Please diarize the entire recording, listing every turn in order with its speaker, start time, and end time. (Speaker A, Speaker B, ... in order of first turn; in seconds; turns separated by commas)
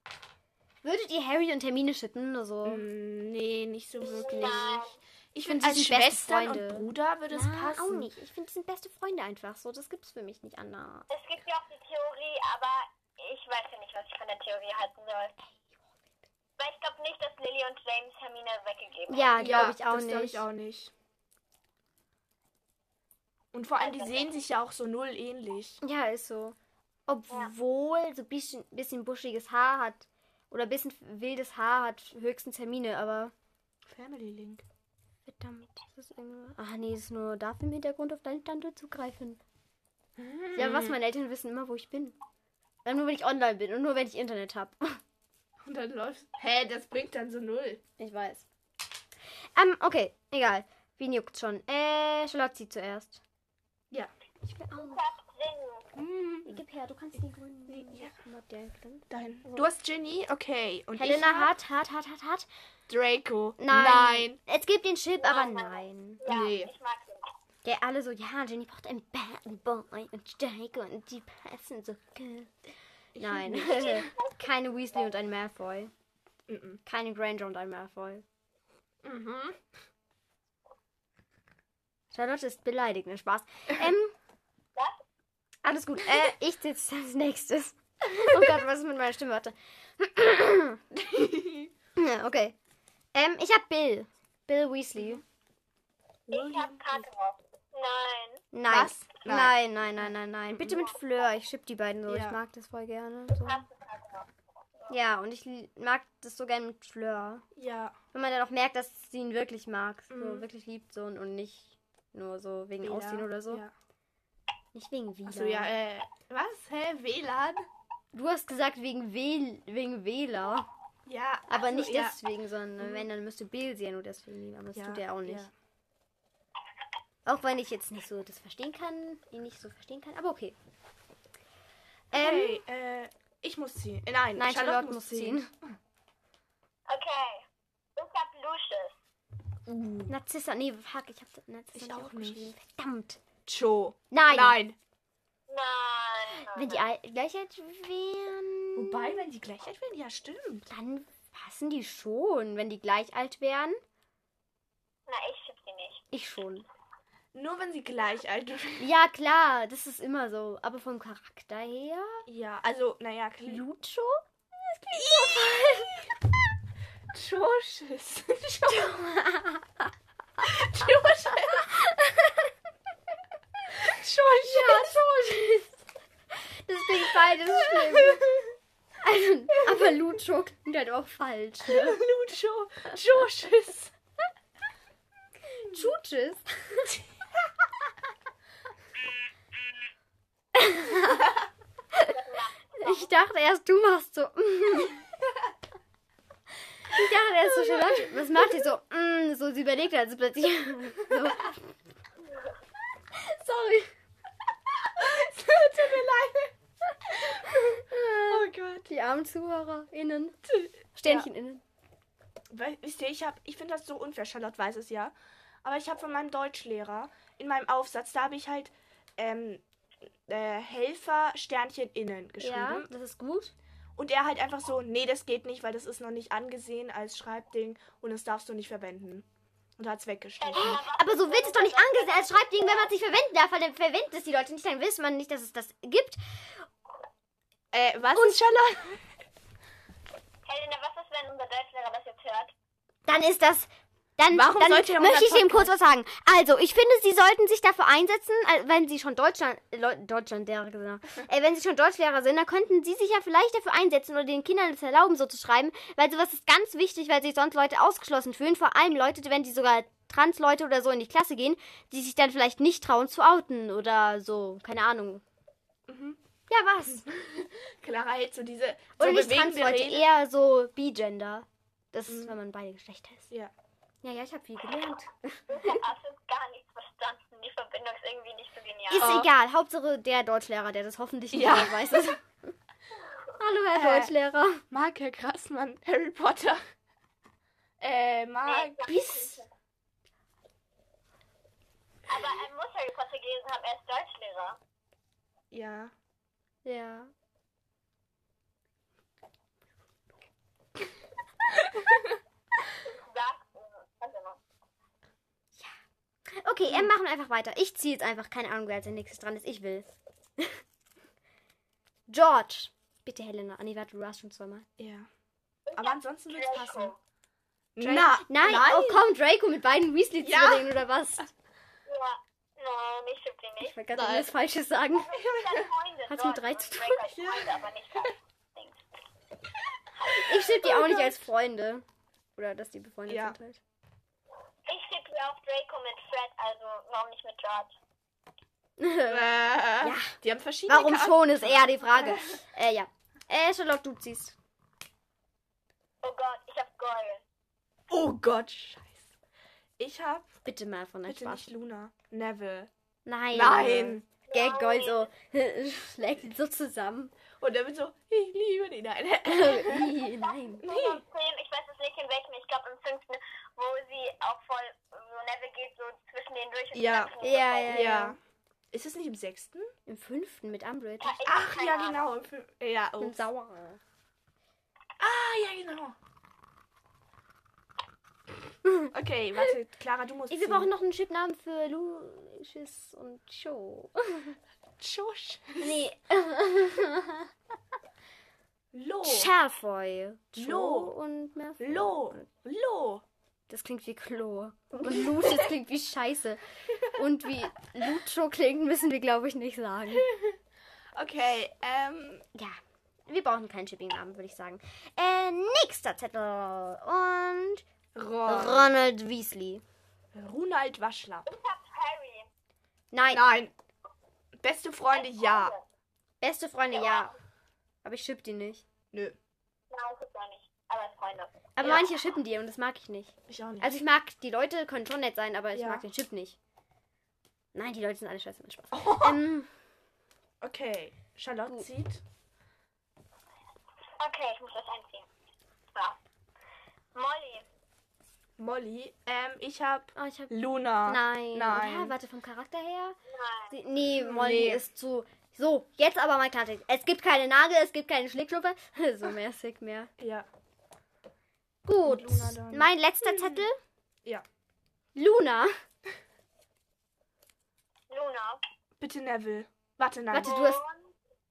Speaker A: 0.8-2.8, Speaker B: 2.6-8.1, Speaker C: 4.0-5.0, Speaker A: 5.4-11.1, Speaker C: 11.1-15.3, Speaker C: 16.6-19.7, Speaker A: 19.1-20.4, Speaker B: 19.4-20.9, Speaker B: 23.5-25.8, Speaker C: 23.8-24.3, Speaker A: 25.8-26.6, Speaker A: 27.1-33.3, Speaker B: 33.9-34.6, Speaker A: 35.2-39.4, Speaker B: 40.2-41.0, Speaker A: 40.5-42.1, Speaker A: 42.8-45.0, Speaker B: 45.6-47.8, Speaker A: 48.0-48.5, Speaker A: 49.5-53.2, Speaker A: 54.5-55.0, Speaker C: 54.8-55.9, Speaker B: 55.9-56.6, Speaker A: 56.4-59.7, Speaker B: 57.7-58.1, Speaker B: 59.1-61.5, Speaker A: 61.0-62.5, Speaker B: 62.9-64.4, Speaker A: 63.6-66.2, Speaker C: 65.2-67.3, Speaker B: 66.2-66.7, Speaker A: 67.6-75.9, Speaker B: 73.2-74.0, Speaker C: 73.7-74.2, Speaker B: 76.5-76.8, Speaker A: 76.8-78.2, Speaker B: 79.0-79.6, Speaker A: 82.1-84.1, Speaker C: 84.8-85.0, Speaker A: 85.6-90.8, Speaker B: 88.2-88.6, Speaker B: 91.0-91.7, Speaker A: 92.0-92.5, Speaker A: 93.1-95.2, Speaker B: 95.0-95.2, Speaker B: 96.3-97.1, Speaker C: 96.3-98.4, Speaker A: 98.5-103.6, Speaker B: 98.7-100.7, Speaker B: 102.1-102.4, Speaker C: 103.4-104.3, Speaker A: 104.9-107.4, Speaker B: 107.5-108.0, Speaker A: 108.1-113.6, Speaker B: 110.1-110.5, Speaker B: 112.8-113.7, Speaker A: 114.7-115.7, Speaker B: 115.2-117.6, Speaker A: 118.1-120.7, Speaker B: 121.0-122.2, Speaker A: 121.5-125.5, Speaker B: 122.8-123.1, Speaker B: 124.7-125.5, Speaker A: 127.2-130.5, Speaker A: 132.1-132.6, Speaker B: 132.1-135.4, Speaker A: 134.3-135.5, Speaker C: 136.9-137.4, Speaker C: 137.9-138.9, Speaker B: 139.7-140.1, Speaker A: 140.1-143.2, Speaker B: 141.7-142.5, Speaker B: 143.4-144.8, Speaker A: 144.1-144.6, Speaker C: 145.5-146.8, Speaker A: 146.3-149.2, Speaker B: 148.7-150.7, Speaker A: 150.7-153.8, Speaker C: 155.1-156.0, Speaker A: 156.1-156.7, Speaker B: 157.3-158.9, Speaker A: 158.8-162.3, Speaker B: 162.3-163.6, Speaker A: 163.4-166.1, Speaker B: 164.9-166.1, Speaker B: 167.1-169.0, Speaker A: 168.7-169.9, Speaker B: 170.4-171.7, Speaker A: 171.5-172.5, Speaker B: 173.7-174.9, Speaker A: 174.4-175.8, Speaker A: 176.3-178.4, Speaker B: 177.1-178.5, Speaker A: 179.0-182.0, Speaker B: 181.7-183.9, Speaker A: 185.5-187.0, Speaker A: 190.5-191.3, Speaker A: 191.9-192.2, Speaker C: 192.1-193.1, Speaker A: 192.8-195.0, Speaker A: 196.9-201.6, Speaker B: 197.8-198.0, Speaker A: 203.1-203.9, Speaker B: 204.8-206.5, Speaker B: 207.1-208.9, Speaker A: 207.3-210.4, Speaker B: 210.5-211.3, Speaker A: 210.9-211.6, Speaker B: 212.5-219.6, Speaker B: 220.3-222.9, Speaker A: 222.4-223.5, Speaker B: 224.0-229.2, Speaker B: 229.8-230.8, Speaker C: 230.4-232.9, Speaker A: 230.5-236.6, Speaker B: 237.7-239.1, Speaker A: 238.1-238.4, Speaker C: 240.4-242.5, Speaker A: 243.1-265.2, Speaker B: 244.3-245.7, Speaker B: 265.9-266.2, Speaker A: 266.5-267.1, Speaker B: 267.0-270.0, Speaker A: 269.0-273.3, Speaker B: 272.1-272.4, Speaker A: 274.0-275.8, Speaker C: 275.5-279.1, Speaker A: 278.9-282.3, Speaker B: 278.9-279.3, Speaker B: 281.3-282.1, Speaker A: 283.3-284.6, Speaker B: 283.7-284.1, Speaker B: 284.7-286.6, Speaker B: 287.8-289.4, Speaker C: 288.4-289.4, Speaker C: 292.1-294.6, Speaker B: 295.5-295.9, Speaker A: 296.6-297.1, Speaker C: 302.8-304.4, Speaker A: 306.3-310.6, Speaker A: 312.1-314.6, Speaker B: 314.8-315.1, Speaker C: 315.7-317.0, Speaker B: 315.7-316.9, Speaker B: 317.8-319.0, Speaker A: 317.8-321.3, Speaker B: 320.2-320.7, Speaker C: 321.9-323.8, Speaker A: 323.6-325.1, Speaker B: 323.9-324.3, Speaker C: 324.9-328.8, Speaker B: 325.1-325.7, Speaker A: 326.1-327.0, Speaker B: 327.0-328.1, Speaker A: 330.0-331.8, Speaker B: 330.4-331.1, Speaker A: 332.4-333.6, Speaker B: 333.1-333.4, Speaker C: 334.7-337.7, Speaker A: 338.8-344.3, Speaker B: 339.1-342.4, Speaker C: 346.0-347.2, Speaker B: 347.9-349.1, Speaker B: 349.8-350.4, Speaker A: 350.4-351.5, Speaker B: 351.1-352.7, Speaker A: 353.1-357.1, Speaker B: 353.3-354.0, Speaker C: 354.3-355.1, Speaker B: 357.4-360.0, Speaker A: 359.2-360.6, Speaker C: 360.2-367.9, Speaker B: 360.6-361.0, Speaker B: 366.7-368.2, Speaker A: 367.2-368.1, Speaker B: 368.7-369.7, Speaker A: 369.9-371.2, Speaker C: 371.0-372.1, Speaker B: 371.2-373.2, Speaker A: 373.0-373.8, Speaker B: 375.0-375.9, Speaker B: 378.9-380.7, Speaker A: 380.3-384.4, Speaker B: 384.8-385.8, Speaker A: 385.6-387.3, Speaker B: 388.7-389.3, Speaker A: 389.0-392.3, Speaker B: 390.3-390.9, Speaker B: 391.6-393.0, Speaker A: 393.5-400.1, Speaker B: 394.8-395.3, Speaker B: 399.9-400.4, Speaker B: 400.9-402.2, Speaker A: 402.3-407.6, Speaker B: 407.9-408.7, Speaker A: 408.2-409.6, Speaker B: 410.1-411.3, Speaker C: 411.3-412.3, Speaker A: 412.9-413.2, Speaker B: 413.1-413.5, Speaker B: 414.3-415.5, Speaker C: 414.9-415.6, Speaker A: 416.2-417.1, Speaker C: 416.7-417.1, Speaker A: 417.8-418.6, Speaker B: 418.9-419.2, Speaker C: 419.7-421.3, Speaker A: 421.6-426.4, Speaker B: 421.6-421.9, Speaker B: 423.3-423.7, Speaker B: 425.5-425.8, Speaker A: 427.5-429.5, Speaker B: 428.7-429.2, Speaker B: 430.4-432.0, Speaker C: 434.0-435.1, Speaker C: 435.7-436.0, Speaker C: 436.9-437.4, Speaker B: 438.4-441.9, Speaker A: 439.9-443.0, Speaker C: 443.1-443.5, Speaker A: 443.5-449.9, Speaker B: 443.9-444.6, Speaker B: 450.0-450.3, Speaker A: 451.6-453.6, Speaker B: 451.8-453.4, Speaker A: 454.9-455.6, Speaker C: 457.9-458.4, Speaker B: 458.8-460.4, Speaker A: 460.1-460.6, Speaker C: 460.2-460.9